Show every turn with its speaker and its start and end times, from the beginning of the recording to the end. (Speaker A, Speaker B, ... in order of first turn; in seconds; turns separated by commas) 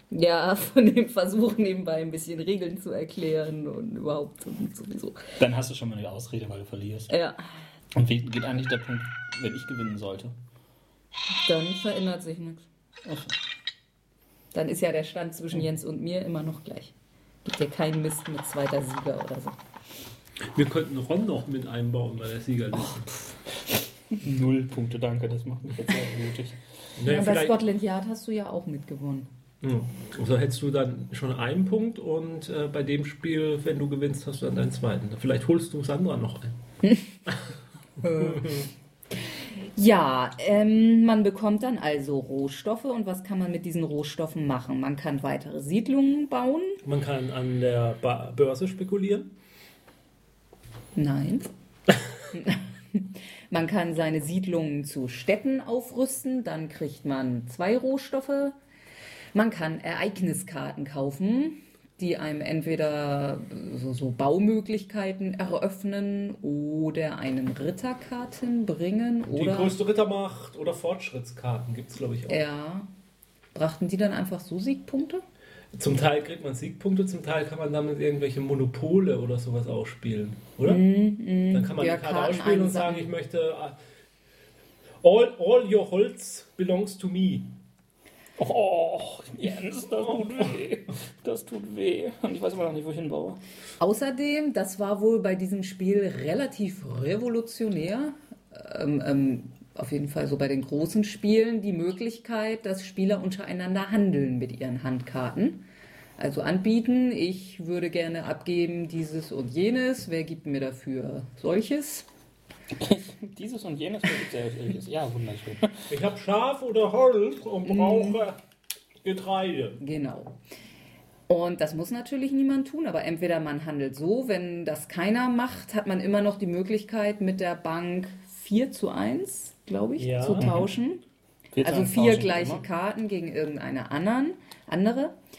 Speaker A: 0.1-5.3, Speaker B: 5.4-7.1, Speaker A: 7.1-7.4, Speaker B: 7.9-10.3, Speaker A: 11.4-12.7, Speaker B: 13.1-13.3, Speaker A: 14.5-16.9, Speaker A: 17.4-19.6, Speaker C: 20.5-23.1, Speaker B: 24.1-26.6, Speaker C: 27.0-27.6, Speaker A: 27.1-29.3, Speaker C: 29.6-36.6, Speaker A: 38.0-38.7, Speaker C: 38.1-38.6, Speaker A: 39.3-46.8, Speaker C: 46.8-49.3, Speaker A: 51.0-51.5, Speaker A: 52.3-58.5, Speaker A: 59.3-69.8, Speaker C: 69.3-72.4, Speaker A: 72.3-72.9, Speaker A: 73.5-75.2, Speaker C: 75.7-80.8, Speaker A: 80.6-83.1, Speaker C: 81.5-83.8, Speaker C: 85.0-87.5, Speaker B: 88.4-93.4, Speaker A: 93.8-105.7, Speaker A: 106.2-112.1, Speaker B: 112.8-115.9, Speaker C: 115.9-118.4, Speaker A: 117.7-118.2, Speaker C: 119.0-119.8, Speaker A: 119.8-120.4, Speaker A: 121.3-131.0, Speaker C: 130.0-130.6, Speaker B: 131.5-132.6, Speaker A: 131.6-135.2